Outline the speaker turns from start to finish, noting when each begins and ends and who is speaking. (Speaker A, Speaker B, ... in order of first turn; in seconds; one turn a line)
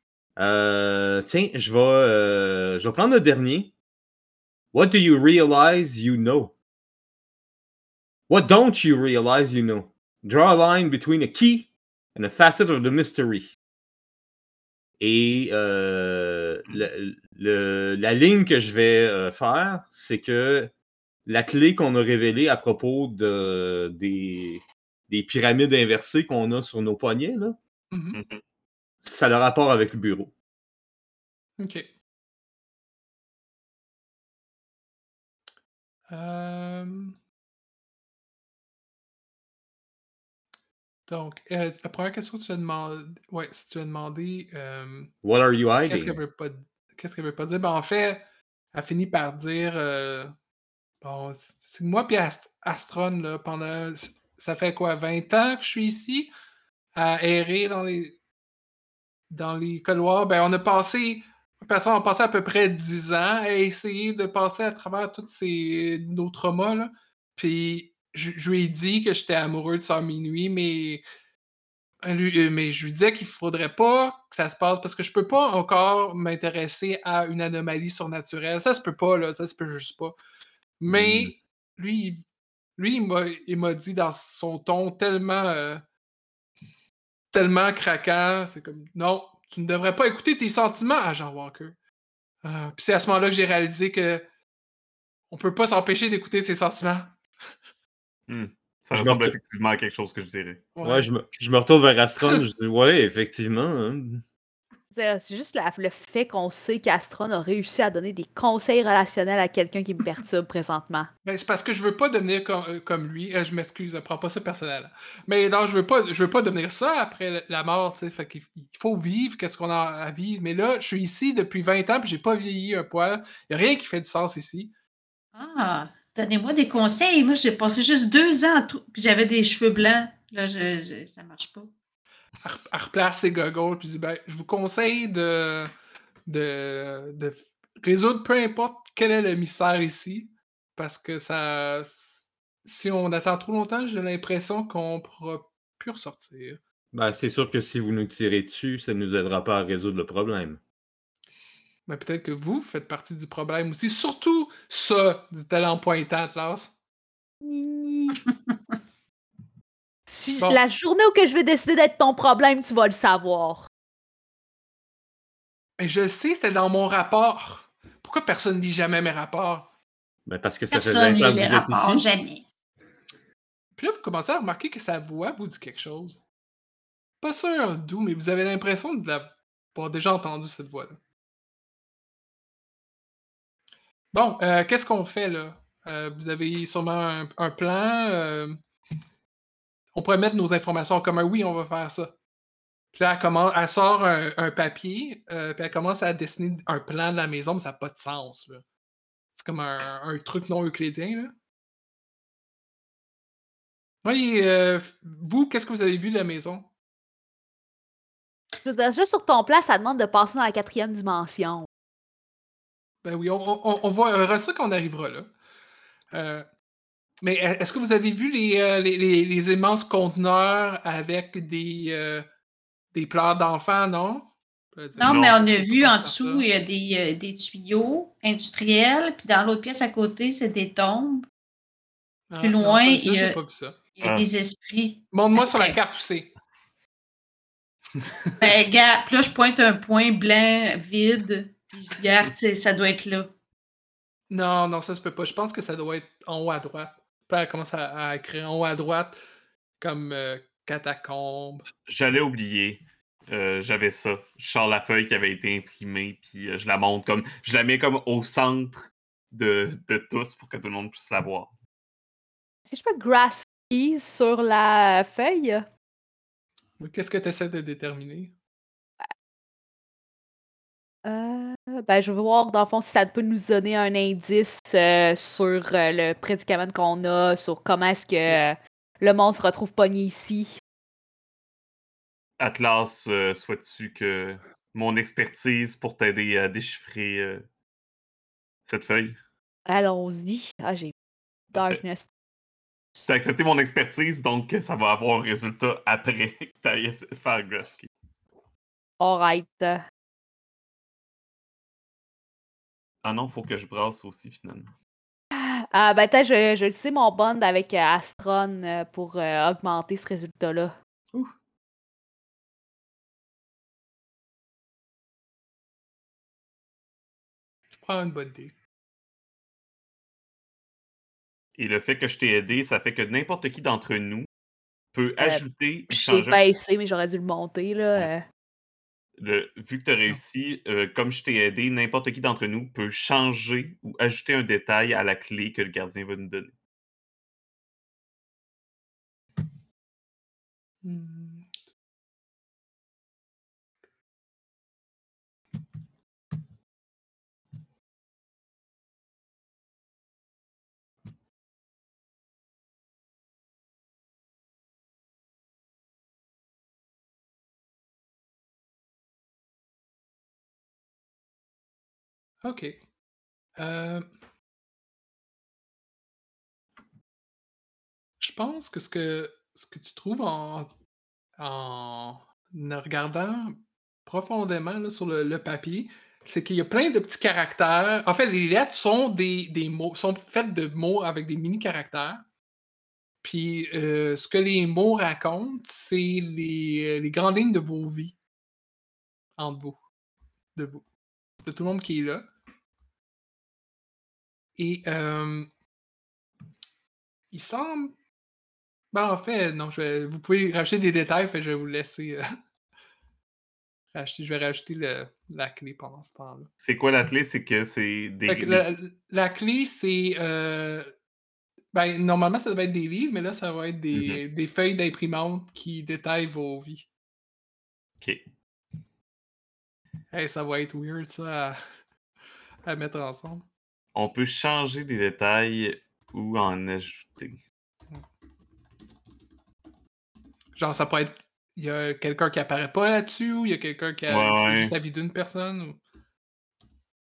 Speaker A: 0.3-3.7
Speaker A: 4.7-6.5
Speaker A: 8.3-13.5
Speaker A: 15.0-20.7
Speaker A: 21.2-27.6
Speaker B: 27.9-28.2
Speaker C: 28.1-28.4
Speaker A: 29.0-30.3
Speaker B: 31.6-31.9
Speaker B: 36.1-37.1
Speaker B: 41.1-45.1
Speaker A: 45.2-46.1
Speaker B: 45.9-50.3
Speaker B: 51.0-56.3
Speaker B: 56.9-58.2
Speaker B: 59.3-71.0
Speaker B: 72.0-80.1
Speaker B: 80.8-82.2
Speaker A: 80.9-81.3
Speaker B: 82.8-85.8
Speaker B: 87.3-91.8
Speaker B: 92.4-94.2
Speaker B: 95.3-97.2
Speaker C: 98.3-100.7
Speaker A: 98.9-99.3
Speaker B: 100.8-101.1
Speaker A: 100.8-104.2
Speaker D: 104.9-111.1
Speaker B: 111.2-124.7
Speaker E: 125.3-131.7
Speaker B: 132.4-135.7
Speaker B: 136.2-146.6
Speaker A: 146.9-150.6
Speaker B: 151.8-156.8
Speaker D: 157.4-158.2
Speaker D: 160.1-163.7
Speaker B: 165.8-169.7
Speaker A: 170.2-172.0
Speaker E: 170.7-172.4
Speaker B: 173.8-176.2
Speaker B: 177.2-181.0
Speaker B: 184.1-188.6
Speaker B: 189.9-192.1
Speaker B: 192.9-198.6
Speaker B: 199.3-201.3
Speaker B: 204.0-206.7
Speaker D: 208.6-211.7
Speaker B: 213.0-215.3
Speaker B: 216.1-216.4
Speaker B: 217.2-222.3
Speaker B: 222.9-226.4
Speaker E: 224.9-231.2
Speaker C: 225.0-225.4
Speaker B: 232.3-233.8
Speaker E: 232.4-233.4
Speaker E: 234.0-235.8
Speaker C: 234.0-234.3
Speaker B: 235.1-236.3
Speaker E: 238.4-243.3
Speaker B: 244.3-249.2
Speaker B: 249.8-251.7
Speaker C: 251.8-261.5
Speaker D: 262.7-265.7
Speaker B: 266.8-268.3
Speaker D: 271.0-280.6
Speaker C: 282.4-287.4
Speaker C: 288.6-289.1
Speaker D: 289.6-290.9
Speaker D: 291.5-292.1
Speaker C: 291.5-291.8
Speaker C: 293.0-297.9
Speaker D: 299.0-299.8
Speaker C: 303.0-304.7
Speaker D: 305.3-310.8
Speaker B: 317.7-318.5
Speaker C: 321.6-324.3
Speaker C: 324.9-326.4
Speaker D: 325.2-328.2
Speaker C: 329.2-336.5
Speaker B: 340.8-341.5
Speaker B: 362.4-362.8
Speaker B: 363.6-364.1
Speaker B: 368.2-370.7
Speaker B: 371.4-382.2
Speaker B: 383.2-388.1
Speaker B: 389.4-389.8
Speaker B: 390.5-390.8
Speaker B: 391.4-392.3
Speaker B: 394.6-395.5
Speaker B: 397.3-397.9
Speaker B: 398.9-402.2
Speaker B: 403.9-406.5
Speaker C: 406.6-408.6
Speaker B: 408.3-410.9
Speaker B: 411.7-416.9
Speaker C: 413.9-414.2
Speaker B: 420.1-421.6
Speaker B: 422.6-423.4
Speaker C: 423.9-427.4
Speaker B: 430.6-435.8
Speaker C: 434.1-434.7